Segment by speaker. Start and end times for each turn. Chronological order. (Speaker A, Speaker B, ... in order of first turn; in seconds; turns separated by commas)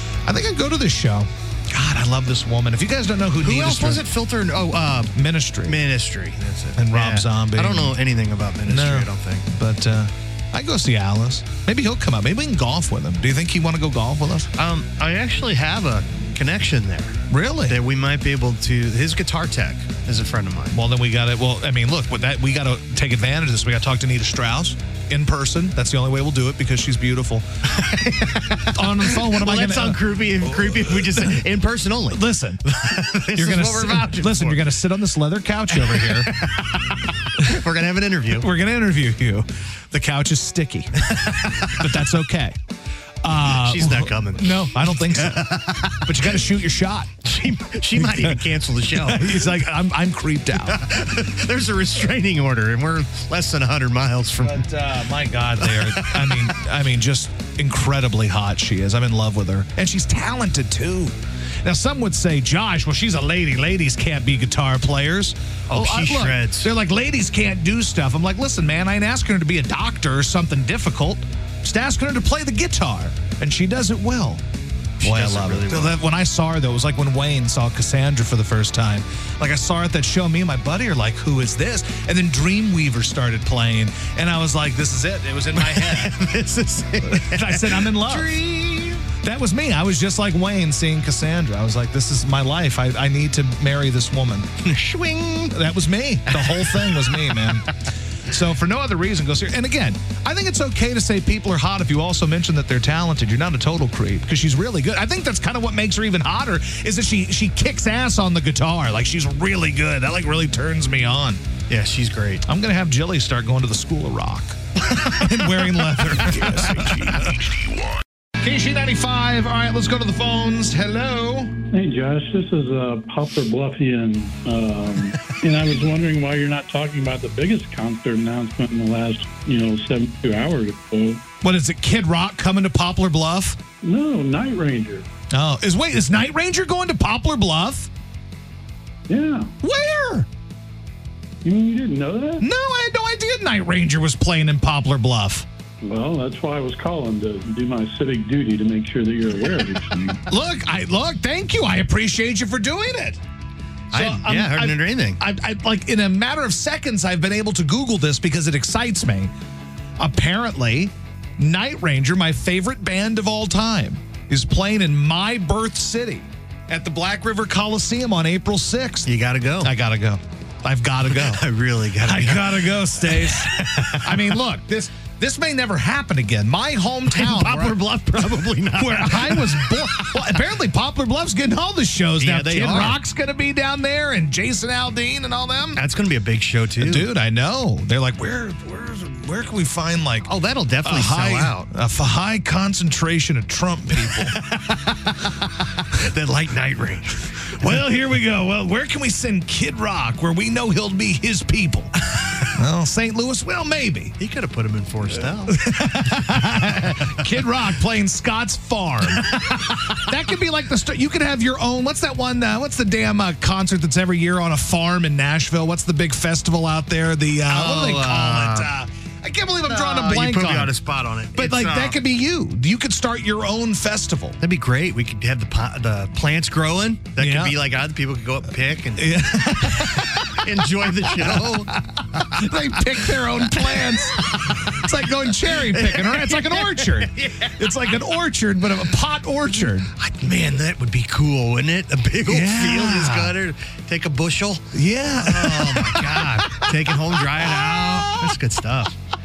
Speaker A: 0.3-4.0, Speaker B: 3.4-5.1, Speaker A: 5.1-5.8, Speaker B: 5.7-9.5, Speaker A: 6.8-8.0, Speaker A: 8.7-14.5, Speaker B: 14.6-20.8, Speaker A: 17.3-17.8, Speaker A: 20.7-27.5, Speaker B: 27.7-34.7, Speaker A: 28.7-31.4, Speaker A: 32.1-32.6, Speaker A: 33.4-36.3, Speaker B: 35.7-38.5, Speaker A: 38.4-41.1, Speaker B: 41.1-41.8, Speaker A: 41.6-42.6, Speaker A: 43.2-47.2, Speaker B: 43.4-46.4, Speaker B: 47.2-49.5, Speaker A: 48.0-48.4, Speaker A: 49.0-50.9, Speaker B: 50.7-54.7, Speaker A: 54.4-74.4, Speaker B: 55.6-56.5, Speaker B: 65.7-66.7, Speaker B: 75.0-76.0, Speaker A: 75.0-86.1, Speaker B: 85.6-89.1, Speaker A: 87.1-88.3, Speaker A: 89.2-94.5, Speaker B: 94.6-95.6, Speaker A: 95.5-97.7, Speaker B: 96.3-97.5, Speaker A: 98.3-111.4, Speaker B: 111.7-112.4, Speaker A: 112.5-117.4, Speaker B: 116.7-117.1, Speaker A: 118.4-121.5, Speaker C: 121.7-131.2, Speaker A: 131.4-133.6, Speaker C: 133.8-135.1, Speaker A: 135.3-137.9, Speaker C: 139.1-139.5, Speaker A: 139.6-140.3, Speaker C: 141.4-142.4, Speaker A: 142.4-145.5, Speaker C: 145.8-150.2, Speaker A: 150.3-153.2, Speaker B: 153.9-155.2, Speaker A: 153.9-159.3, Speaker A: 160.0-169.1, Speaker B: 169.1-169.7, Speaker A: 169.6-171.4, Speaker B: 171.1-174.3, Speaker A: 172.0-177.8, Speaker B: 177.1-180.2, Speaker A: 178.8-185.8, Speaker B: 182.2-183.0, Speaker B: 185.8-187.1, Speaker A: 186.8-190.3, Speaker B: 190.2-191.7, Speaker A: 190.8-194.4, Speaker B: 194.4-194.8, Speaker B: 195.9-197.2, Speaker A: 197.6-201.9, Speaker A: 202.5-204.1, Speaker B: 204.2-205.6, Speaker A: 205.5-220.7, Speaker B: 217.5-218.7, Speaker B: 219.7-222.0, Speaker A: 221.3-224.4, Speaker B: 224.4-232.3, Speaker A: 227.2-227.6, Speaker A: 229.0-230.4, Speaker A: 232.2-239.9, Speaker B: 233.5-234.6, Speaker B: 235.5-238.0, Speaker B: 239.9-249.0, Speaker A: 242.3-243.3, Speaker A: 244.7-248.3